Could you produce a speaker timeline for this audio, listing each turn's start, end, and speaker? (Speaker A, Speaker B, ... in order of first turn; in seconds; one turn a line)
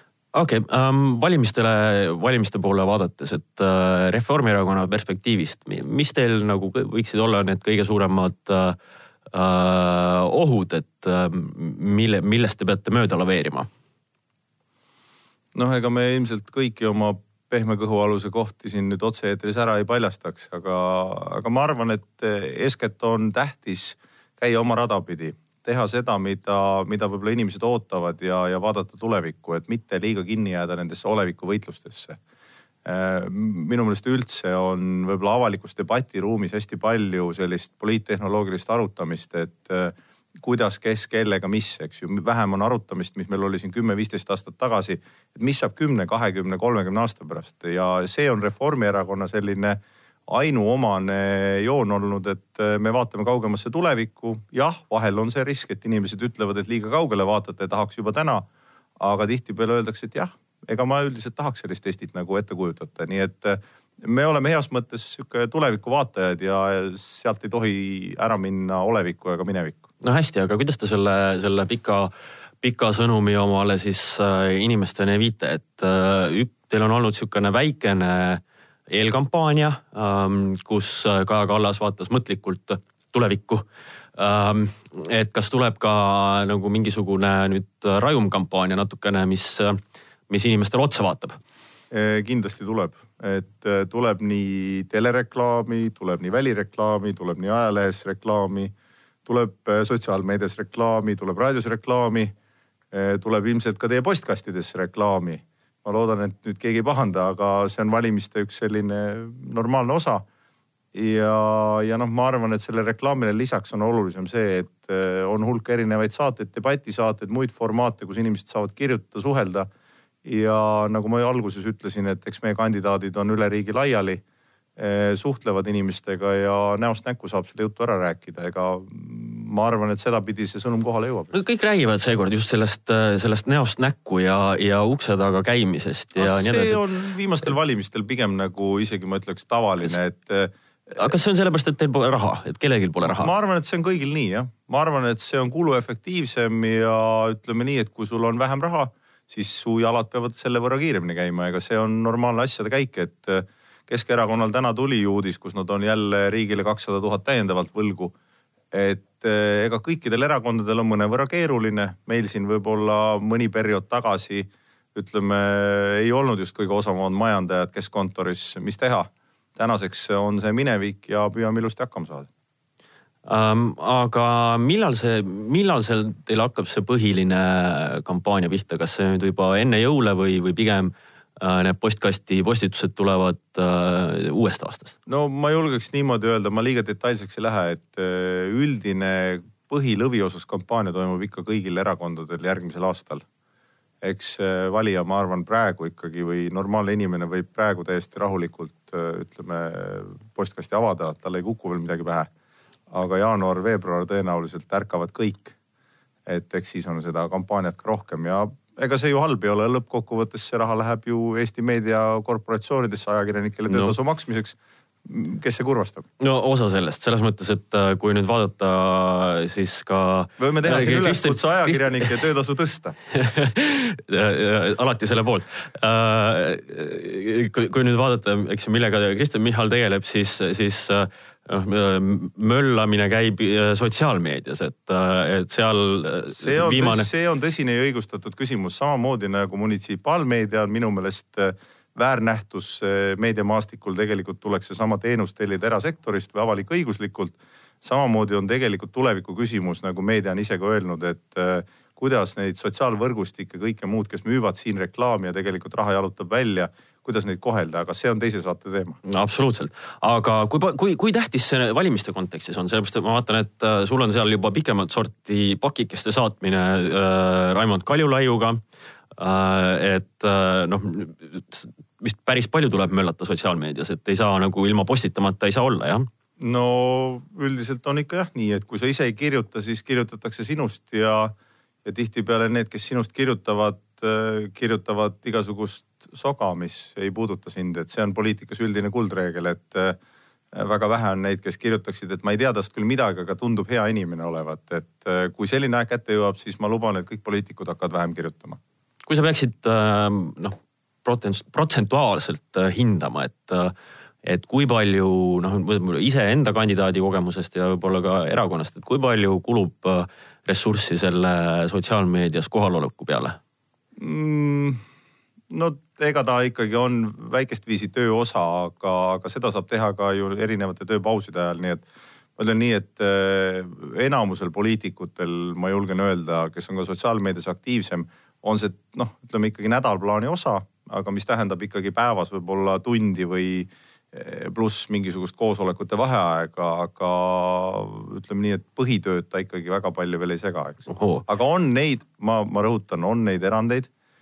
Speaker A: 0.3-8.8
Speaker A: 9.3-13.7
Speaker B: 15.6-32.2
Speaker B: 32.9-58.5
Speaker B: 59.0-69.8
Speaker A: 70.0-72.1
Speaker A: 72.6-83.6
Speaker A: 84.2-91.4
Speaker B: 91.9-98.7
Speaker B: 99.3-102.3
Speaker B: 102.9-110.3
Speaker B: 110.9-119.7
Speaker B: 120.2-124.2
Speaker B: 124.8-131.3
Speaker A: 131.3-136.8
Speaker B: 136.2-140.5
Speaker A: 141.0-143.3
Speaker B: 143.0-158.2
Speaker B: 158.7-172.3
Speaker A: 173.3-185.0
Speaker B: 185.1-193.2
Speaker B: 194.0-202.3
Speaker B: 202.9-205.6
Speaker B: 206.3-216.1
Speaker A: 213.7-213.9
Speaker A: 216.2-222.1
Speaker B: 220.4-222.9
Speaker A: 223.1-237.1
Speaker B: 236.3-259.0
Speaker A: 259.1-268.6
Speaker A: 269.2-276.1
Speaker B: 276.4-281.3
Speaker B: 281.9-290.0
Speaker B: 290.5-298.6
Speaker A: 299.1-313.4
Speaker B: 314.0-314.8
Speaker B: 315.5-343.9
Speaker A: 340.9-341.2